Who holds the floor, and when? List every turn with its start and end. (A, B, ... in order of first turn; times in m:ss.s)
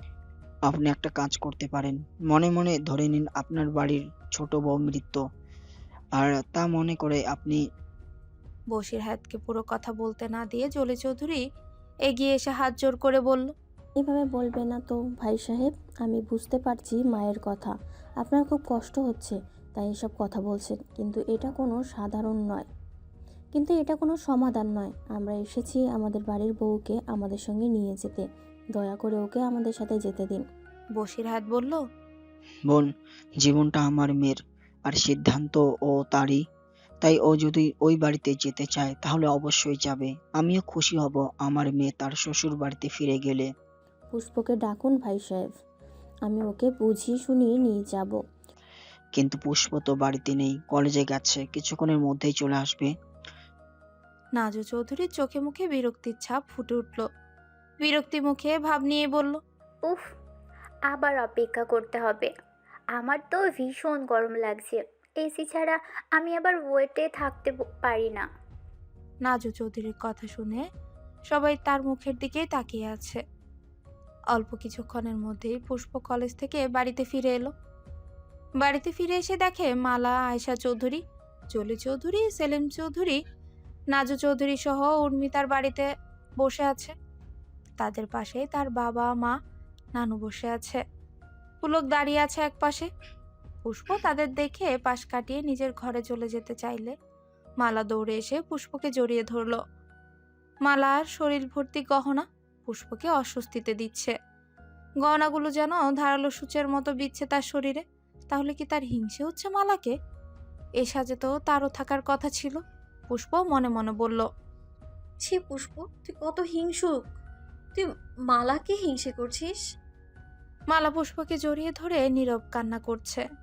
0:00.7-0:05.2 A
0:06.1-0:07.6 A
0:08.7-0:11.4 B
0:12.1-0:13.5 B
0:14.0-0:22.6 C
0:23.5-0:28.2 C
0:28.8-0:30.4 C
0:31.0-0:31.8 B
0:33.4-0:36.4 A
0:37.0-0:43.5 A
0:44.1-0:45.5 C
0:46.3-0:48.1 C
0:49.1-0:52.9 A
0:54.4-0:57.0 B
0:57.8-0:59.4 B
1:00.9-1:02.3 D
1:03.0-1:08.2 D
1:09.2-1:10.6 B
1:11.3-1:13.2 B
1:14.3-1:17.5 B
1:18.6-1:21.0 B
1:21.5-1:23.2 B
1:23.9-1:25.8 B
1:26.4-1:26.9 B
1:27.8-1:29.3 B
1:29.9-1:30.8 B
1:31.6-1:32.9 B
1:33.6-1:36.9 B
1:37.6-1:39.6 B
1:40.6-1:44.1 B
1:45.0-1:49.9 B
1:50.8-1:52.6 B
1:53.1-1:54.2 B
1:55.2-1:57.0 E
1:57.7-1:59.6 E
2:00.7-2:03.2 B